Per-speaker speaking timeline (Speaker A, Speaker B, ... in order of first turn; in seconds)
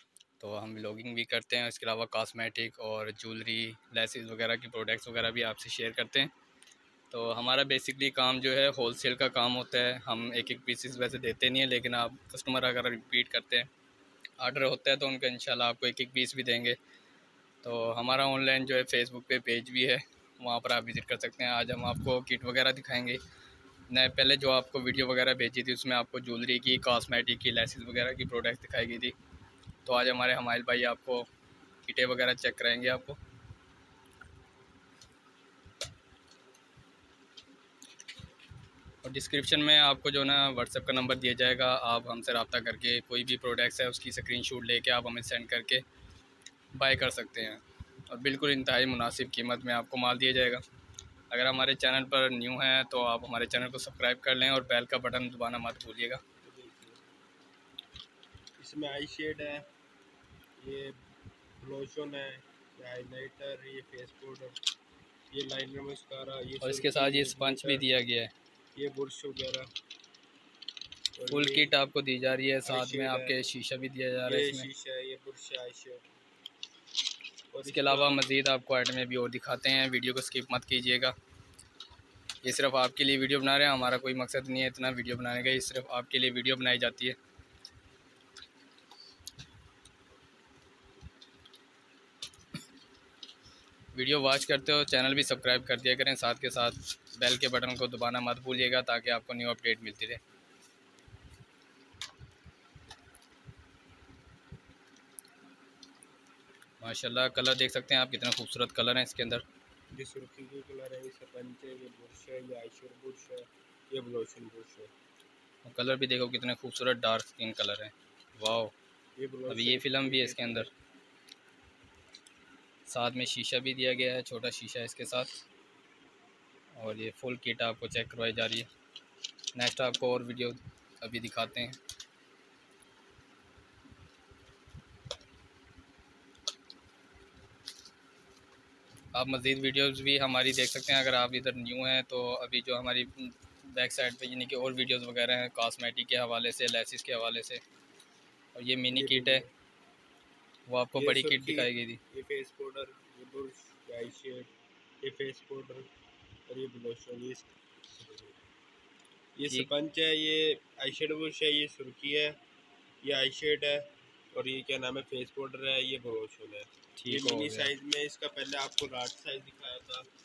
Speaker A: 0.4-6.3, 7.1-13.7, 14.4-16.8, 17.6-23.2, 23.9-29.1, 29.8-31.3, 31.8-33.2, 39.0-45.8, 46.7-50.6, 51.3-56.2, 66.6-68.3, 71.3-74.7, 77.6-81.1, 82.4-87.2, 93.9-100.2, 106.8-109.4, 115.6-118.7, 119.5-120.7, 122.9-125.4, 126.8-128.7, 129.5-131.8, 139.1-147.6, 148.5-149.4, 150.7-152.0, 167.0-167.7
Speaker B: 56.4-57.0, 58.6-59.6, 60.6-60.9, 61.6-64.6, 65.3-67.8, 68.7-69.7, 71.2-71.7, 72.6-73.4, 74.2-76.0, 77.5-78.2, 109.9-114.9, 119.2-120.7, 148.9-149.5, 150.9-154.5, 155.0-155.9, 156.5-158.4, 159.4-162.3, 163.0-170.1